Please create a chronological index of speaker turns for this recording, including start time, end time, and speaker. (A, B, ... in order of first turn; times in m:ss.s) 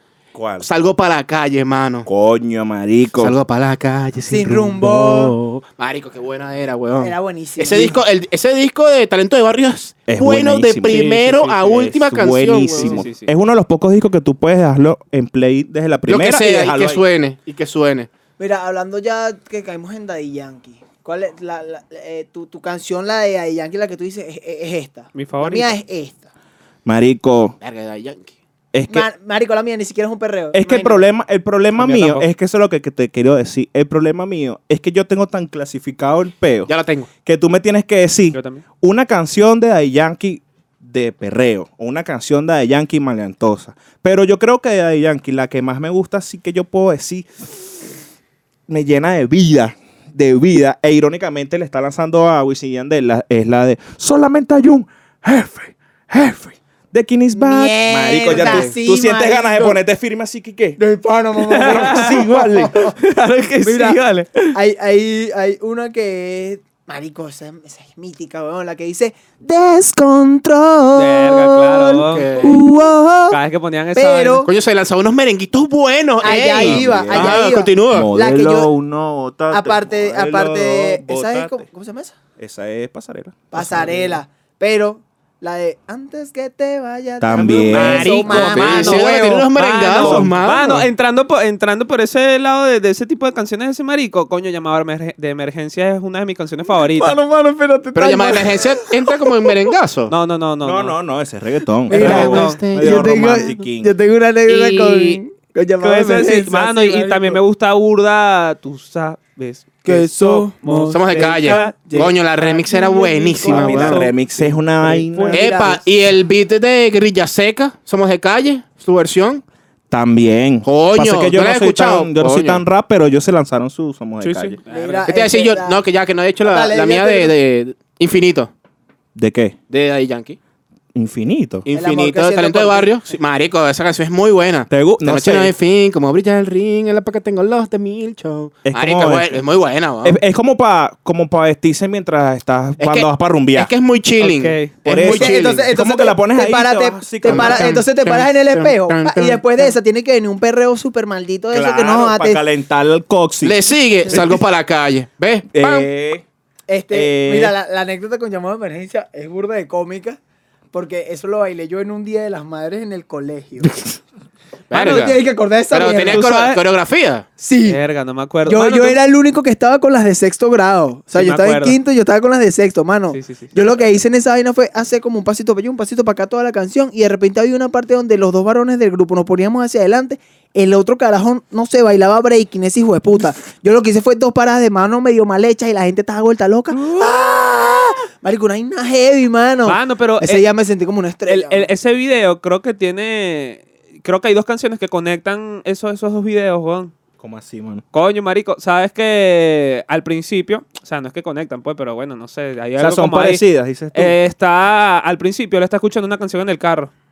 0:00.4-0:00.7 A
0:00.6-0:02.1 B
0:02.1-0:03.4 A
0:03.2-0:13.1 B
0:04.3-0:05.4 C
0:07.0-0:08.0 C
0:10.1-0:11.1 A
0:10.9-0:11.8 D
0:11.6-0:17.0 A
0:12.8-0:13.3 D
0:16.1-0:18.1 B
0:18.4-0:26.3 C
0:25.1-0:25.8 D
0:26.9-0:27.6 A
0:27.6-0:28.3 B
0:28.7-0:29.1 A
0:28.9-0:31.0 C
0:30.5-0:36.7 A
0:31.8-0:32.3 D
0:36.7-0:37.1 B
0:37.2-0:47.5 A
0:38.3-0:38.6 D
0:48.7-1:00.8 A
0:57.3-0:59.8 C
0:58.3-0:58.7 B
1:00.8-1:03.0 C
1:01.4-1:02.3 D
1:01.6-1:02.8 A
1:03.0-1:04.6 D
1:03.6-1:04.0 C
1:04.5-1:13.4 C
1:10.9-1:12.6 D
1:12.0-1:12.6 B
1:13.3-1:14.5 D
1:13.9-1:14.5 C
1:14.4-1:18.1 B
1:16.2-1:18.7 C
1:16.4-1:21.6 A
1:19.5-1:22.2 C
1:22.4-1:24.2 A
1:23.5-1:29.0 C
1:27.2-1:28.8 A
1:27.6-1:37.2 D
1:28.3-1:30.8 B
1:30.0-1:30.9 A
1:36.7-1:39.6 C
1:38.0-1:40.1 B
1:40.1-1:41.0 D
1:40.6-1:43.9 A
1:41.9-1:43.1 B
1:41.9-1:47.4 C
1:41.9-1:42.6 D
1:44.5-1:45.2 D
1:45.8-1:52.1 D
1:49.8-1:54.1 C
1:50.9-1:54.1 B
1:53.4-1:55.7 D
1:53.5-1:55.4 A
1:54.8-1:55.8 C
1:55.3-1:59.4 B
1:59.9-2:04.6 A
2:00.6-2:02.6 B
2:04.2-2:05.0 D
2:04.7-2:05.8 C
2:05.0-2:08.5 B
2:06.4-2:07.3 C
2:09.2-2:09.6 A
2:09.7-2:10.4 B
2:11.0-2:11.7 A
2:11.7-2:20.2 B
2:11.7-2:12.9 C
2:14.7-2:15.5 A
2:18.6-2:19.4 A
2:20.0-2:23.7 A
2:22.8-2:25.7 B
2:24.2-2:24.7 D
2:24.8-2:27.8 A
2:25.0-2:32.4 C
2:27.3-2:29.8 B
2:31.5-2:34.4 A
2:33.4-2:35.9 B
2:35.5-2:36.2 A
2:36.7-2:40.2 C
2:36.9-2:37.6 A
2:40.7-2:43.7 C
2:44.7-2:45.2 B
2:44.7-2:46.3 C
2:45.7-2:47.3 B
2:46.1-2:46.6 A
2:47.4-2:47.8 C
2:47.6-2:49.0 D
2:48.5-3:11.7 C
2:51.1-2:51.8 D
2:53.1-2:54.0 D
3:06.7-3:07.2 D
3:09.6-3:10.5 D
3:11.2-3:16.9 D
3:17.2-3:17.8 A
3:17.9-3:26.9 D
3:22.8-3:24.2 A